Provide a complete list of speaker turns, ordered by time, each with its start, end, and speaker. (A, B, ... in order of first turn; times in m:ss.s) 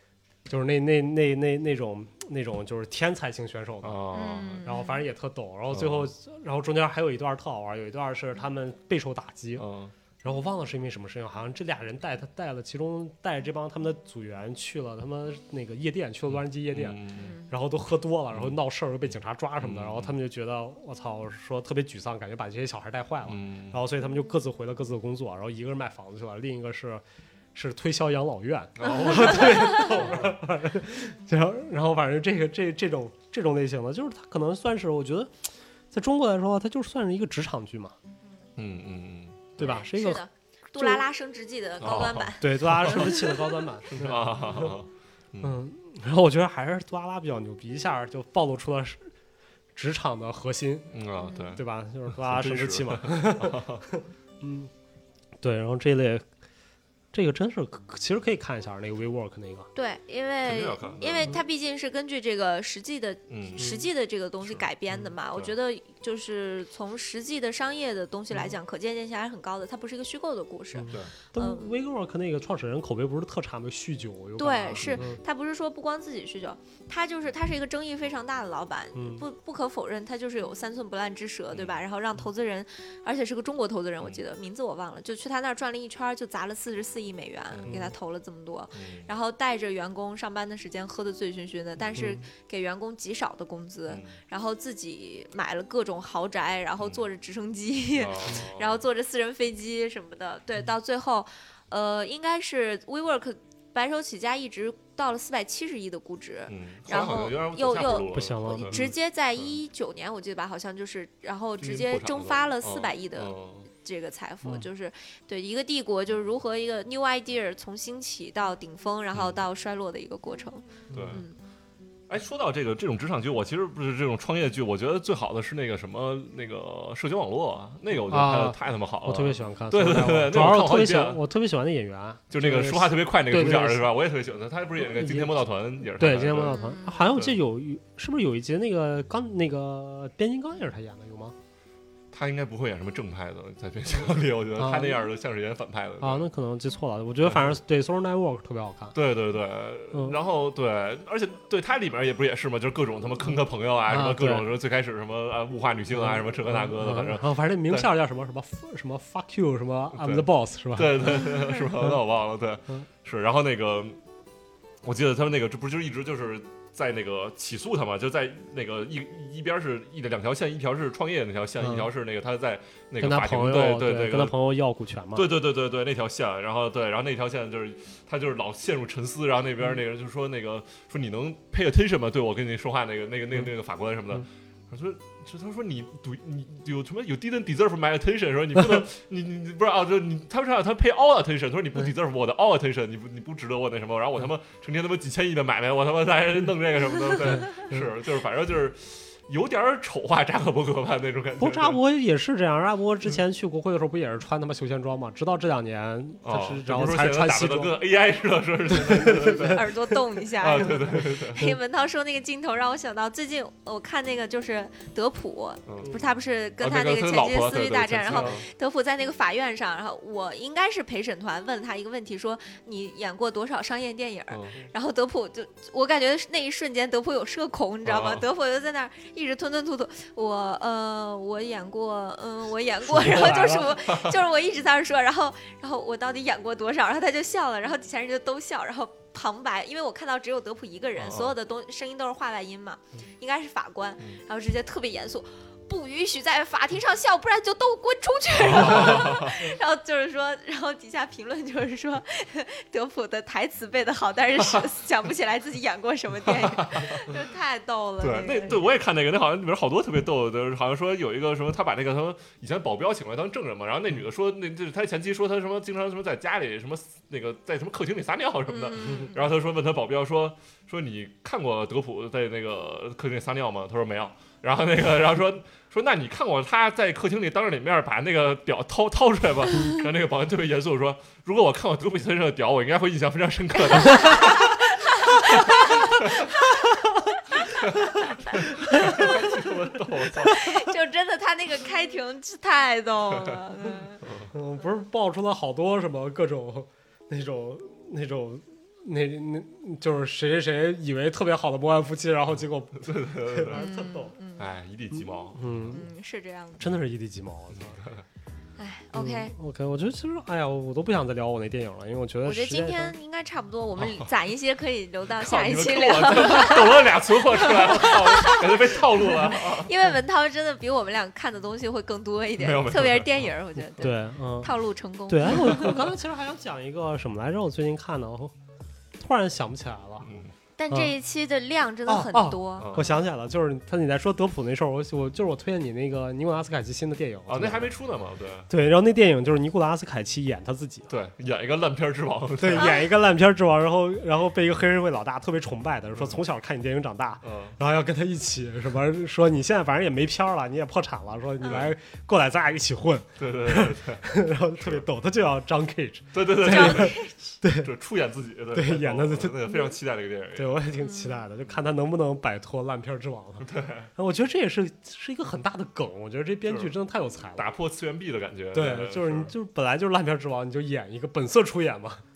0:00.5-0:04.0 A
0:03.8-0:04.7 B
0:04.1-0:05.0 C
0:04.6-0:09.7 A
0:05.7-0:06.1 B
0:09.6-0:09.9 B
0:10.2-0:27.0 A
0:16.3-0:17.3 B
0:17.2-0:17.5 C
0:19.6-0:20.2 B
0:23.2-0:23.8 B
0:27.5-0:35.3 A
0:28.8-0:30.3 B
0:35.9-0:37.9 A
0:38.6-0:39.5 B
0:39.6-0:40.2 A
0:39.6-0:43.4 C
0:40.7-0:41.0 A
0:41.8-0:43.2 B
0:42.4-0:44.8 A
0:43.9-0:45.6 B
0:45.4-0:49.1 A
0:49.7-0:50.9 A
0:50.9-0:53.8 B
0:51.2-0:51.5 C
0:51.5-0:54.7 A
0:55.4-0:56.2 A
0:57.1-0:59.7 A
0:59.7-1:11.7 C
1:00.4-1:01.4 B
1:03.3-1:03.7 B
1:03.6-1:03.8 A
1:10.7-1:15.2 A
1:14.4-2:01.4 C
1:18.9-1:19.2 A
1:21.5-1:21.8 B
1:27.5-1:27.9 B
1:27.6-1:27.9 A
1:28.7-1:29.1 B
1:32.0-1:32.2 A
1:33.9-1:34.2 B
1:37.9-1:38.8 B
1:46.5-1:48.9 B
1:48.0-1:48.9 A
1:51.6-1:53.7 B
1:59.1-1:59.4 B
2:00.9-2:01.2 A
2:00.9-2:01.2 B
2:02.1-2:11.2 B
2:07.9-2:13.9 A
2:12.3-2:17.4 B
2:14.8-2:21.3 A
2:16.4-2:17.1 C
2:22.1-2:26.3 B
2:24.6-2:25.0 A
2:26.0-2:29.0 A
2:27.2-2:27.6 B
2:28.9-2:37.9 B
2:29.9-2:30.2 A
2:33.9-2:34.5 A
2:35.9-2:42.0 A
2:39.9-2:44.0 B
2:44.8-2:54.3 B
2:51.6-2:51.9 A
2:53.0-2:55.3 A
2:55.1-3:21.8 B
3:17.4-3:17.8 A
3:21.4-3:27.8 A
3:26.2-3:29.7 B
3:28.7-3:29.6 A
3:29.2-4:18.6 C
3:30.4-3:31.5 B
3:35.7-3:35.9 B
3:36.6-3:38.4 B
3:38.1-3:38.4 A
3:44.3-3:44.6 B
3:47.8-3:48.2 B
3:52.8-3:53.8 A
3:53.1-3:54.1 B
4:01.0-4:01.3 B
4:08.4-4:09.4 B
4:16.2-4:17.1 B
4:18.0-4:46.2 B
4:28.5-4:29.2 C
4:43.7-4:48.3 C
4:47.5-4:50.4 B
4:48.6-4:49.3 A
4:48.8-4:49.1 C
4:50.1-4:54.0 C
4:53.1-4:53.4 B
4:54.0-4:54.3 B
4:54.3-5:04.1 A
5:02.8-5:03.6 B
5:03.5-5:04.5 C
5:04.4-5:05.5 B
5:04.9-5:05.8 A
5:05.7-5:06.6 C
5:06.6-5:07.9 A
5:07.5-5:08.0 B
5:08.6-5:09.3 C
5:08.9-5:12.9 A
5:12.2-5:25.7 C
5:13.8-5:14.1 B
5:15.1-5:19.7 B
5:22.4-5:23.3 B
5:23.8-5:24.5 A
5:25.1-5:28.3 A
5:25.4-5:25.8 B
5:29.0-5:30.1 A
5:30.0-5:30.3 B
5:30.6-5:32.8 C
5:31.9-5:37.7 A
5:32.6-5:33.0 B
5:37.3-5:38.5 B
5:38.5-5:40.9 A
5:40.9-5:42.8 B
5:42.4-5:57.7 A
5:47.2-5:47.6 B
5:51.4-5:51.7 B
5:53.2-5:54.8 B
5:56.1-6:00.6 B
5:56.4-5:57.1 C
5:58.5-5:59.8 A
6:00.3-6:07.5 A
6:00.8-6:01.2 C
6:03.4-6:03.9 B
6:06.4-6:06.7 B
6:07.4-6:09.3 B
6:08.5-6:12.0 A